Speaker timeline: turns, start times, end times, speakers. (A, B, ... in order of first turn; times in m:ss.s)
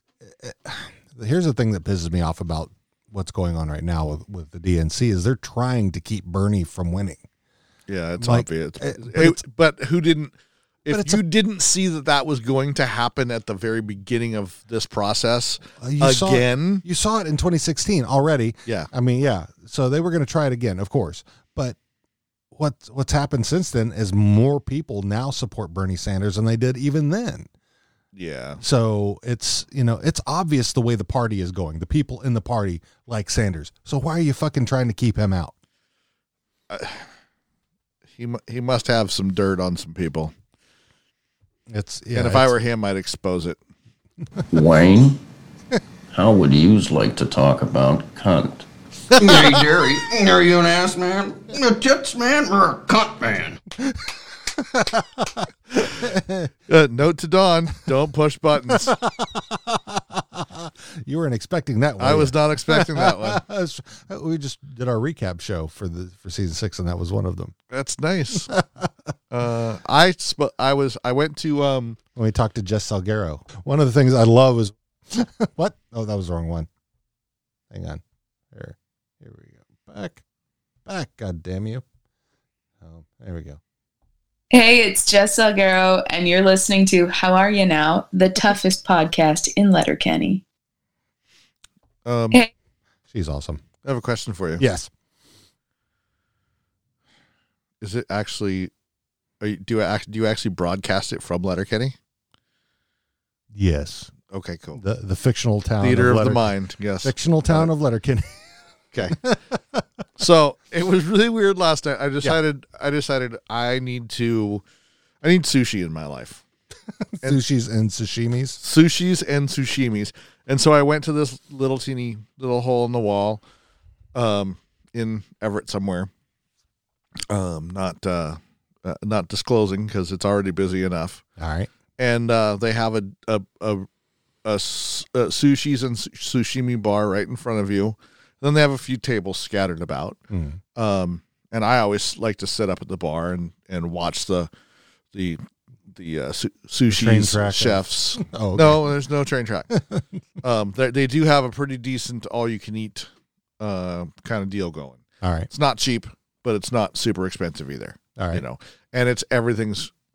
0:00.2-0:07.2 A
0:07.9-0:10.3 B
0:08.2-0:09.4 A
0:10.8-0:16.8 B
0:10.9-0:11.2 A
0:15.8-0:21.8 A
0:22.5-0:27.5 A
0:28.1-0:28.6 B
0:28.6-0:35.5 A
0:36.7-0:37.1 B
0:38.1-0:40.3 B
0:41.7-0:42.5 A
0:42.1-0:43.6 B
0:44.5-0:45.2 C
0:46.1-0:48.7 C
0:49.2-0:53.6 D
0:54.6-0:56.5 A
0:56.7-0:59.0 B
0:58.9-1:07.5 A
1:02.0-1:03.4 B
1:07.7-1:08.5 B
1:08.5-1:08.9 A
1:09.3-1:12.0 B
1:12.1-1:16.7 A
1:17.7-1:20.2 A
1:20.8-1:21.8 A
1:22.8-1:23.6 A
1:24.5-1:30.4 E
1:32.0-1:32.4 B
1:33.1-1:33.6 A
1:33.8-1:34.6 B
1:34.6-1:34.9 A
1:37.8-1:38.7 B
1:39.4-1:41.9 B
1:43.5-1:44.1 A
1:44.3-1:44.8 B
1:44.8-1:46.5 A
1:45.8-1:47.7 B
1:47.0-1:48.5 A
1:49.1-1:49.8 A
1:50.2-1:54.6 B
1:55.2-1:56.4 B
1:57.1-1:58.6 A
1:58.6-2:03.4 B
2:04.1-2:06.1 B
2:07.3-2:11.2 B
2:11.4-2:11.7 A
2:12.0-2:13.9 B
2:14.4-2:20.2 B
2:20.3-2:20.6 A
2:20.7-2:24.5 B
2:25.1-2:29.7 B
2:26.9-2:29.0 A
2:29.7-2:30.0 A
2:30.4-2:39.9 B
2:35.2-2:35.5 A
2:38.2-2:38.4 A